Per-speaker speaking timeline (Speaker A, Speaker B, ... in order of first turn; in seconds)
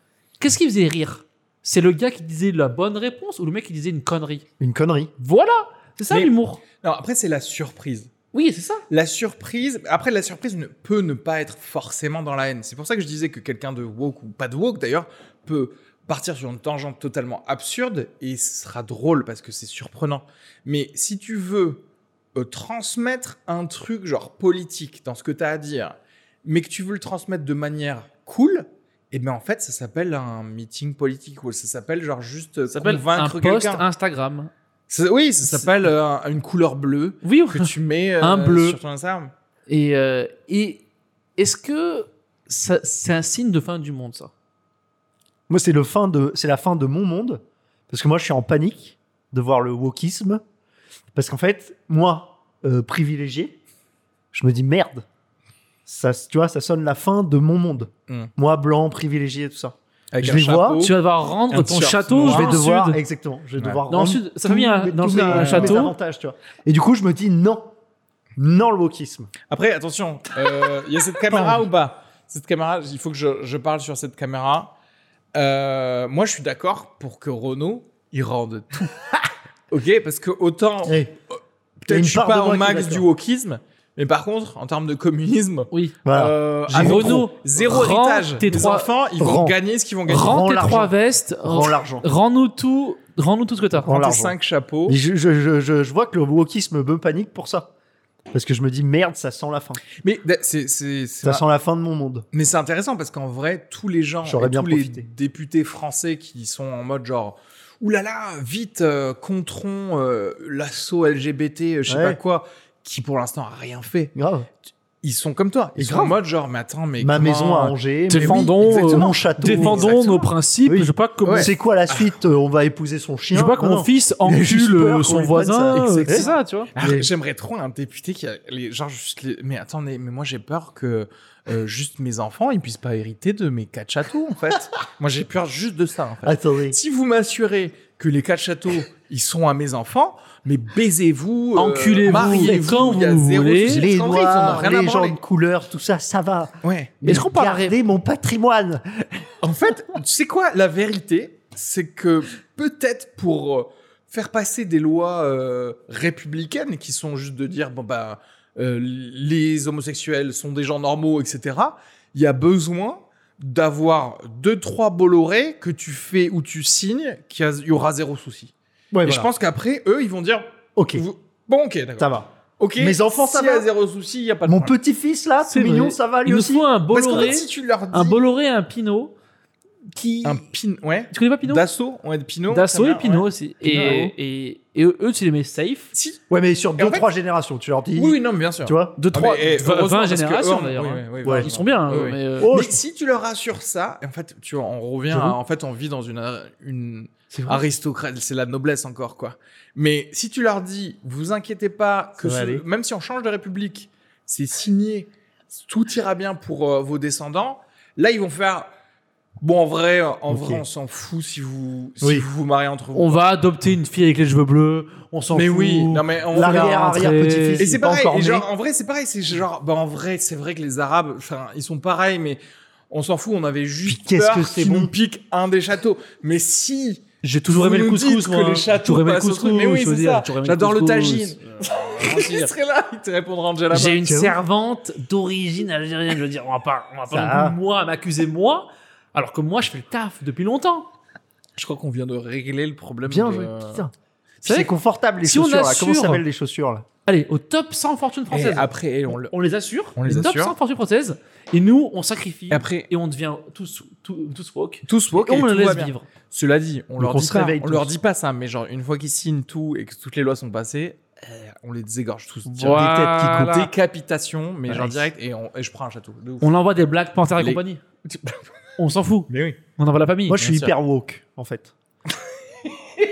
Speaker A: 0.4-4.5, 5.2-6.6, 8.3-8.8, 32.7-34.5, 37.2-38.8, 39.7-40.8, 41.4-44.3, 60.8-63.0, 63.9-65.9, 86.7-88.9, 90.1-94.0, 118.1-121.5, 123.3-126.7, 141.6-143.9, 147.0-147.8, 175.5-179.2, 179.9-180.4, 181.1-181.6, 182.5-185.9, 189.0-192.5, 212.9-217.7, 227.2-232.5, 233.7-240.9, 244.4-244.7, 245.2-246.2, 247.1-256.1, 262.5-263.7, 266.4-267.8, 268.8-270.6
Speaker B: 4.6-5.1, 45.5-50.4, 51.1-53.6, 54.3-55.0, 55.9-60.9, 62.2-67.7, 68.4-69.3, 71.3-71.6, 80.8-81.1, 81.9-83.1, 86.0-87.3, 89.2-89.6, 90.1-90.9, 91.4-92.1, 93.8-94.3, 94.9-97.7, 98.3-99.8, 101.2-102.3, 104.2-105.1, 111.9-112.2, 114.2-114.5, 115.8-116.2, 117.0-127.1, 136.2-136.8, 143.7-149.3, 168.9-169.3, 170.8-171.1, 172.0-173.7, 174.5-176.7, 183.6-184.1, 186.3-189.0, 191.2-191.5, 192.4-192.8, 195.1-195.4, 197.3-197.6, 202.2-202.6, 210.3-210.6, 212.0-212.3, 216.3-218.5, 223.8-224.9, 234.0-234.4, 237.1-237.6, 243.1-243.9, 244.4-246.8, 257.0-257.9, 262.6-263.7, 270.3-271.7
Speaker C: 6.1-8.1, 8.9-33.9, 34.9-39.3, 60.1-61.0, 61.5-62.6, 65.3-65.8, 69.5-74.7, 75.3-79.1, 79.7-81.0, 81.8-90.8, 93.9-95.0, 100.0-101.5, 102.3-114.1, 115.0-120.3, 121.2-122.1, 125.7-145.2, 146.6-147.2, 149.4-168.5, 169.0-174.8, 176.9-178.2, 180.2-183.3, 185.9-186.2, 186.8-187.1, 187.9-208.7, 209.4-213.2, 215.3-217.1, 217.6-234.0, 241.6-243.8, 248.3-249.3, 250.0-250.6, 252.5-252.9, 254.9-266.6, 267.4-268.4, 269.3-269.6, 270.4-270.7